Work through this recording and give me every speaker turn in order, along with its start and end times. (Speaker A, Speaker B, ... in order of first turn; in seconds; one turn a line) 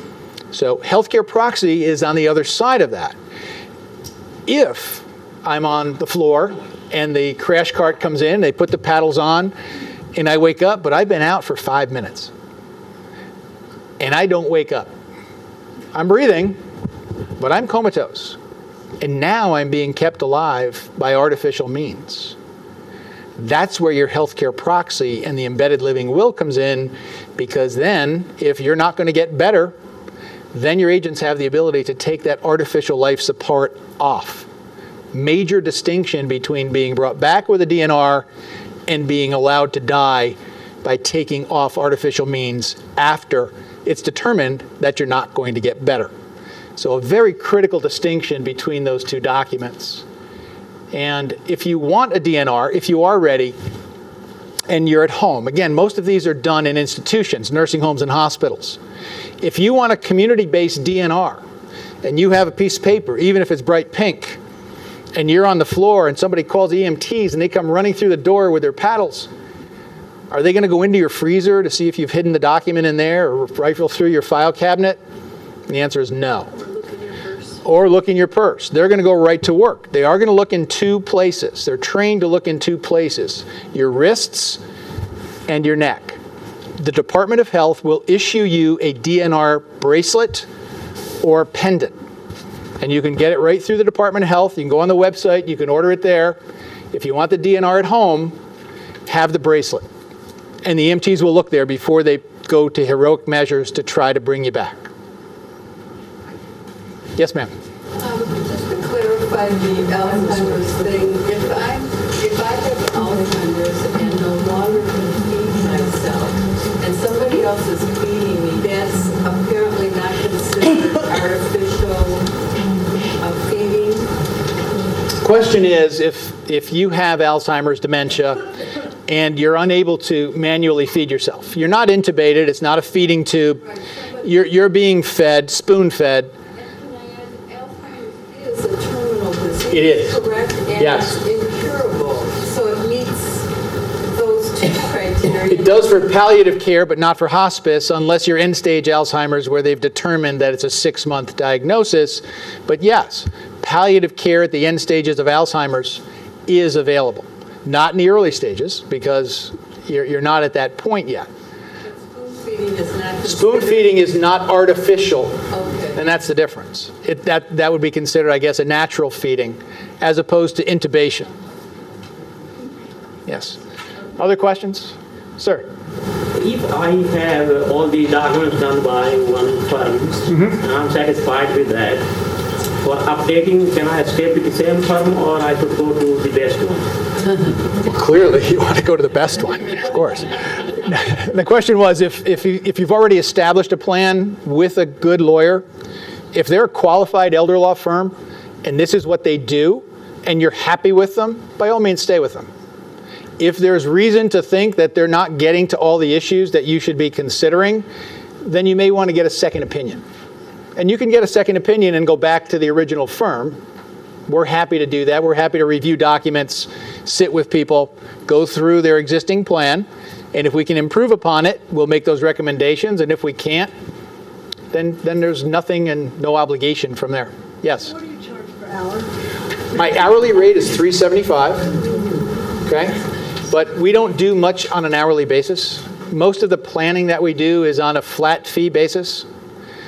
Speaker A: 0.5-3.1
Speaker A: 4.5-9.5
Speaker A: 10.1-12.3
Speaker A: 14.0-14.9
Speaker A: 15.9-16.6
Speaker A: 17.4-18.4
Speaker A: 19.0-22.4
Speaker A: 23.4-29.7
Speaker A: 30.5-34.5
Speaker A: 35.1-38.3
Speaker A: 38.9-46.1
Speaker A: 46.8-50.0
Speaker A: 50.9-53.5
Speaker A: 54.7-58.8
Speaker A: 59.4-61.4
Speaker A: 62.0-64.4
Speaker A: 65.1-69.3
Speaker A: 70.3-75.0
Speaker A: 75.7-76.5
Speaker B: 76.5-77.6
Speaker A: 77.6-84.6
Speaker A: 85.5-86.2
Speaker A: 86.8-90.5
Speaker A: 91.2-91.9
Speaker A: 92.8-96.4
Speaker A: 96.9-98.3
Speaker A: 99.1-99.9
Speaker A: 100.6-104.9
Speaker A: 107.2-107.5
Speaker C: 107.9-122.3
Speaker C: 123.2-124.1
Speaker A: 125.2-128.4
Speaker A: 129.1-133.6
Speaker A: 134.2-136.3
Speaker C: 136.6-143.5
Speaker A: 139.7-140.2
Speaker A: 140.8-141.2
Speaker C: 144.1-146.1
Speaker A: 145.3-161.3
Speaker C: 161.9-164.0
Speaker A: 163.2-171.3
Speaker C: 165.5-166.0
Speaker A: 173.3-173.6
Speaker A: 174.2-175.7
Speaker D: 176.3-182.0
Speaker A: 180.3-180.6
Speaker D: 182.8-186.9
Speaker A: 187.8-195.6
Speaker A: 196.3-202.5
Speaker A: 203.4-207.8
Speaker A: 208.4-210.0
Speaker A: 210.8-213.6
Speaker A: 214.3-223.7
Speaker A: 224.7-227.9
Speaker B: 227.8-229.1
Speaker A: 229.7-231.8
Speaker A: 232.6-239.2